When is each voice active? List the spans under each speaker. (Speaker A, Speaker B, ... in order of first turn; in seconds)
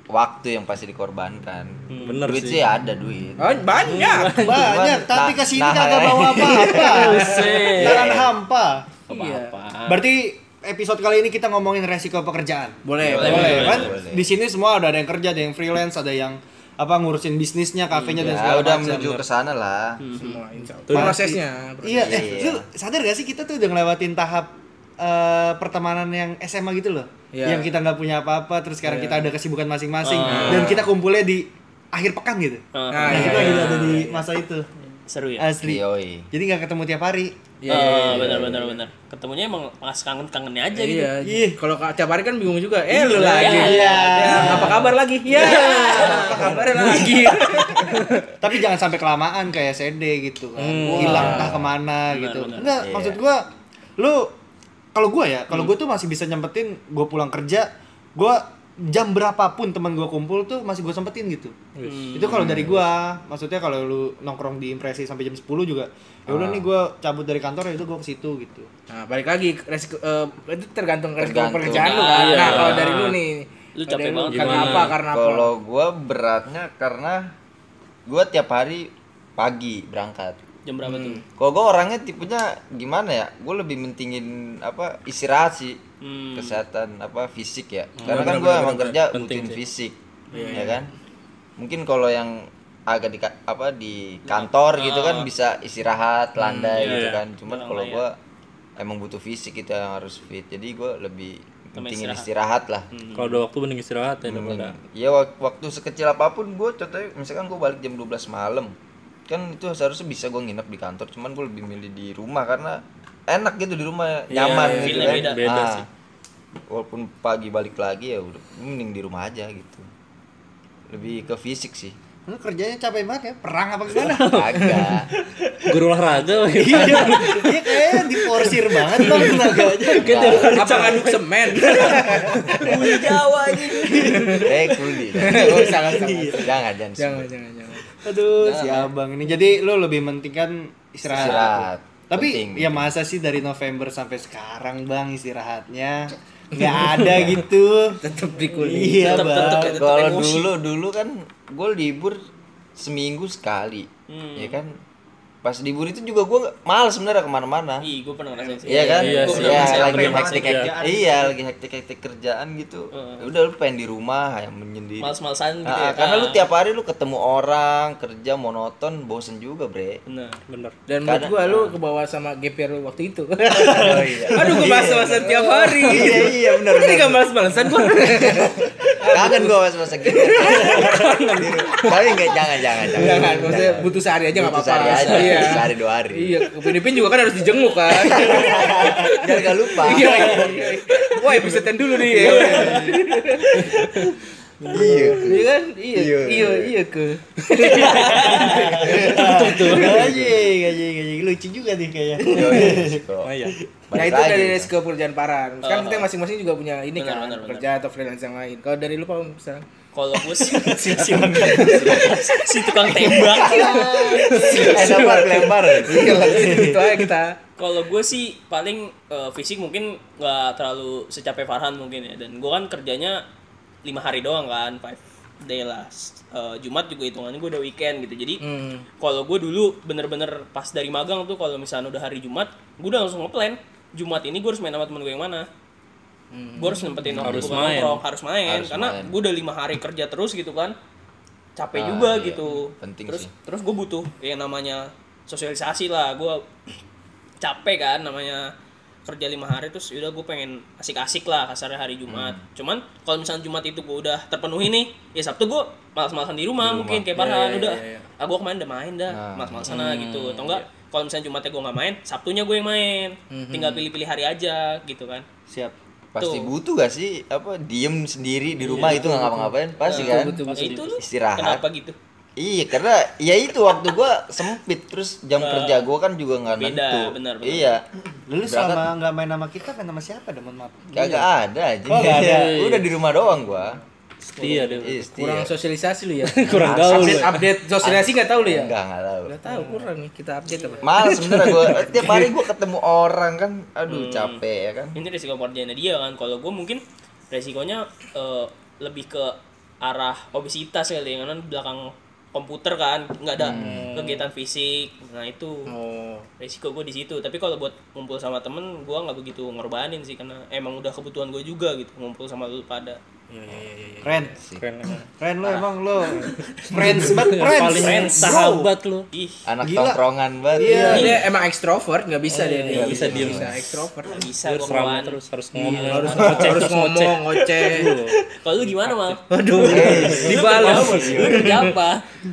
Speaker A: 0.1-3.7, 4.4-8.3, 13.0-14.3, 18.2-20.0, 22.0-22.7, 30.3-30.9, 35.6-36.3, 38.0-38.7, 44.3-44.9, 50.9-51.8, 52.8-53.2, 62.3-62.9, 66.3-66.7, 71.2-72.7, 75.1-77.3, 78.1-80.4, 81.4-85.8, 86.3-90.0, 90.5-90.9, 91.6-98.2, 98.8-102.9, 104.2-108.8, 109.3-115.9, 116.7-119.9, 120.9-122.0, 124.2-125.1, 130.0-130.6, 134.2-137.3, 141.1-142.9, 149.8-152.2, 152.8-154.7, 155.4-157.9, 158.7-165.1, 165.7-170.0, 171.1-171.8, 173.7-177.2, 178.2-186.5, 187.9-190.8, 194.7-196.7, 200.0-200.3, 202.3-203.3, 203.9-204.7, 211.0-212.2, 213.3-216.8, 237.1-237.7, 238.4-239.2, 241.8-243.3, 252.1-252.4, 256.6-257.1, 259.1-259.7, 266.1-270.4, 271.0-271.6, 272.4-277.8, 278.4-278.9, 280.9-283.8, 284.8-285.5, 286.5-289.4, 290.8-295.0, 303.4-303.9, 319.4-321.2, 322.7-323.6, 329.6-331.6
Speaker B: 1.9-2.2, 3.4-4.4, 7.0-7.7, 9.1-9.5, 12.8-13.9, 20.1-22.4, 27.3-27.7, 28.8-29.3, 32.9-34.1, 37.6-38.8, 40.8-48.3, 51.0-51.5, 68.9-75.5, 80.8-81.2, 90.3-90.8, 114.4-115.2, 126.7-127.4, 129.1-129.4, 130.2-133.0, 133.7-134.6, 135.1-137.9, 148.0-149.7, 158.4-159.3, 170.9-193.8, 194.8-199.6, 202.2-202.8, 203.9-209.7, 210.3-212.3, 213.5-217.4, 228.4-228.8, 236.3-237.0, 257.2-258.0, 263.3-263.9, 268.6-270.9, 284.4-288.8, 289.3-292.3, 305.7-306.3, 313.3-314.4, 320.6-324.3, 325.6-327.9, 329.3-331.7
Speaker C: 2.0-2.6, 3.9-4.5, 18.4-19.2, 20.9-21.2, 30.2-30.7, 33.3-34.0, 48.0-48.2, 50.6-51.5, 61.8-62.2, 72.1-73.2, 74.3-75.0, 88.0-89.6, 96.4-97.2, 103.1-104.8, 114.3-115.9, 124.0-124.9, 125.6-127.5, 129.0-129.5, 130.1-131.1, 159.0-160.7, 170.5-170.8, 198.9-200.3, 203.2-203.6, 237.2-238.0, 259.7-260.7, 270.5-270.8, 282.2-282.9, 284.3-285.1, 286.2-287.5, 303.4-304.3, 314.6-315.1, 316.2-319.1, 322.3-323.6, 324.4-328.2, 328.8-329.2
Speaker D: 4.4-8.8, 9.9-19.1, 20.9-34.7, 35.4-37.4, 41.2-41.6, 43.3-44.8, 45.4-47.8, 48.4-53.5, 54.0-54.3, 55.0-61.5, 62.1-68.7, 122.3-124.8, 126.5-130.6, 133.8-134.2, 135.3-136.2, 138.0-148.0, 148.6-149.8, 159.1-161.3, 174.6-176.4, 192.2-193.0, 194.7-195.1, 198.6-203.0, 210.9-211.9, 213.4-215.4, 215.9-216.8, 265.5-265.8, 278.3-280.9, 281.9-282.6, 314.0-314.5, 315.2-318.7, 319.6-320.0, 320.6-321.1, 325.6-326.3
Speaker E: 6.5-8.2, 9.1-10.0, 13.2-14.0, 17.9-18.2, 20.0-20.4, 30.0-30.9, 32.7-34.1, 35.1-35.5, 37.7-41.1, 42.9-46.6, 52.1-52.8, 61.8-62.3, 71.7-72.8, 73.8-75.0, 80.7-81.2, 86.0-86.6, 90.3-90.7, 94.3-95.3, 96.7-98.0, 101.8-102.3, 102.9-103.4, 114.6-115.4, 129.0-129.5, 130.1-134.5, 138.3-138.9, 141.1-141.4, 148.8-150.5, 154.1-154.6, 157.8-160.7, 162.9-163.3, 165.0-166.4, 170.1-170.4, 184.9-185.5, 192.1-193.0, 197.6-198.8, 205.6-206.1, 207.0-207.7, 209.9-214.9, 217.6-223.2, 223.8-228.4, 229.0-235.5, 236.6-240.7, 241.6-246.4, 247.4-248.5, 249.1-265.3, 266.2-266.5, 268.7-269.1, 269.8-272.0, 275.4-275.9, 276.6-277.8, 290.5-290.8, 293.9-294.4, 294.9-305.7, 306.4-313.0, 315.4-318.4, 319.1-319.5, 320.8-321.2, 324.1-325.2, 325.9-326.7, 327.6-332.1